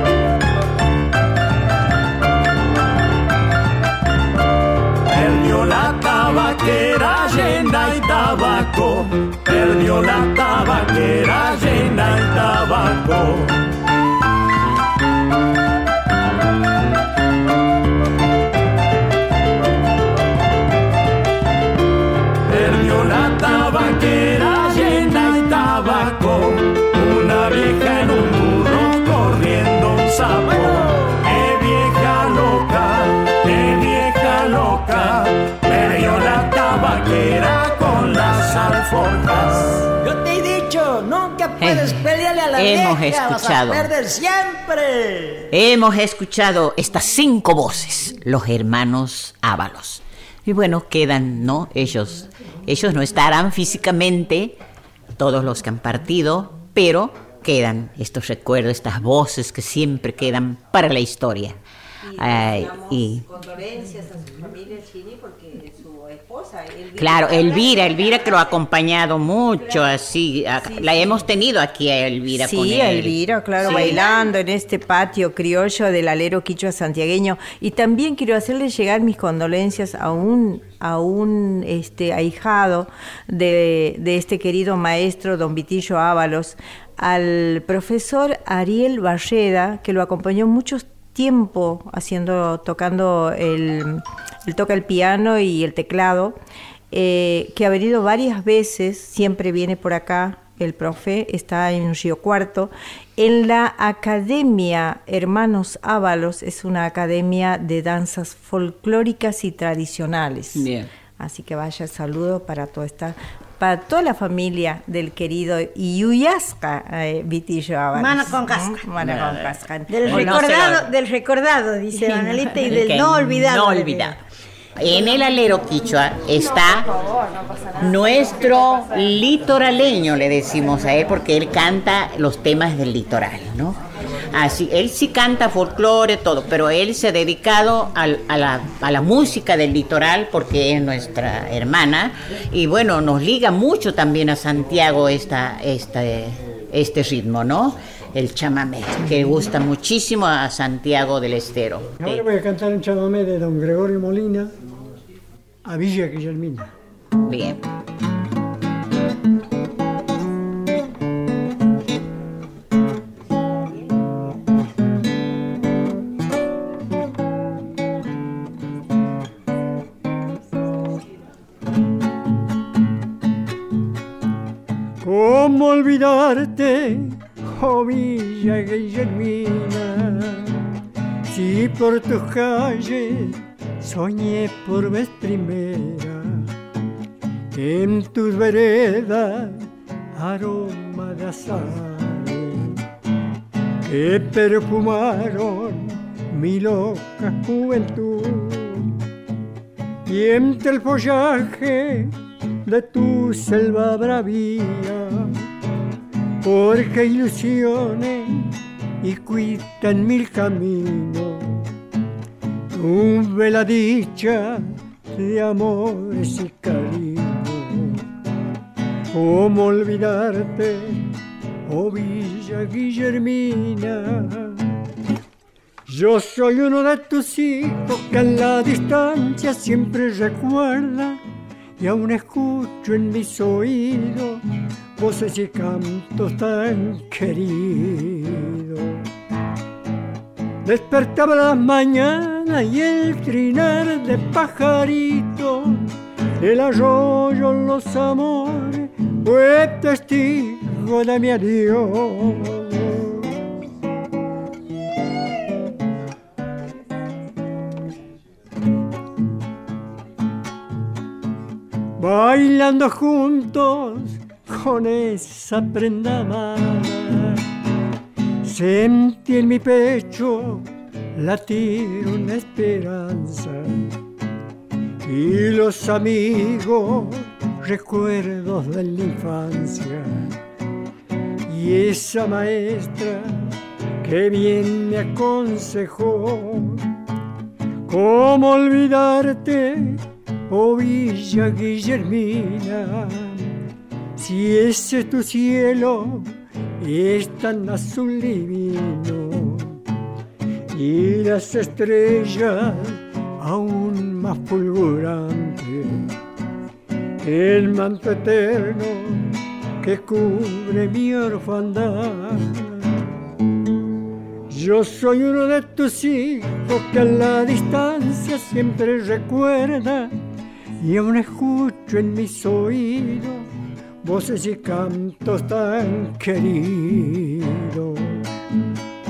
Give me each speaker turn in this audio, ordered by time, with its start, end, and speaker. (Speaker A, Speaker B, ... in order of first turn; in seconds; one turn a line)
Speaker A: 5.0-13.6
Speaker A: 22.4-39.8
Speaker B: 39.2-45.3
Speaker C: 41.6-43.9
Speaker C: 45.5-54.6
Speaker C: 55.2-61.6
Speaker D: 62.0-68.4
Speaker C: 62.1-63.2
Speaker C: 67.0-74.2
Speaker D: 70.7-71.2
Speaker D: 72.3-96.4
Speaker D: 96.9-120.8
Speaker C: 110.5-110.9
Speaker E: 117.9-118.8
Speaker C: 119.0-120.8
Speaker E: 119.9-124.1
Speaker D: 122.0-122.2
Speaker C: 122.6-124.2
Speaker C: 124.8-126.9
Speaker C: 127.8-133.8
Speaker C: 134.3-152.2
Speaker F: 152.0-154.5
Speaker F: 155.7-156.7
Speaker C: 157.2-157.6
Speaker F: 175.0-180.6
Speaker F: 181.3-186.5
Speaker F: 187.5-192.8
Speaker F: 193.8-198.9
Speaker F: 200.1-202.1
Speaker F: 202.7-205.4
Speaker F: 206.4-211.6
Speaker F: 212.7-218.0
Speaker F: 219.1-221.0
Speaker F: 221.7-224.6
Speaker F: 225.9-231.2
Speaker F: 231.8-234.4
Speaker F: 235.0-239.0
Speaker F: 240.6-245.8
Speaker F: 246.4-253.3
Speaker F: 262.0-267.4
Speaker F: 268.4-273.8
Speaker F: 275.0-280.3
Speaker F: 281.5-286.9
Speaker F: 287.9-293.5
Speaker F: 294.2-299.8
Speaker F: 300.7-306.1
Speaker F: 307.2-312.9
Speaker F: 314.5-320.1
Speaker F: 320.8-323.5
Speaker F: 324.0-328.2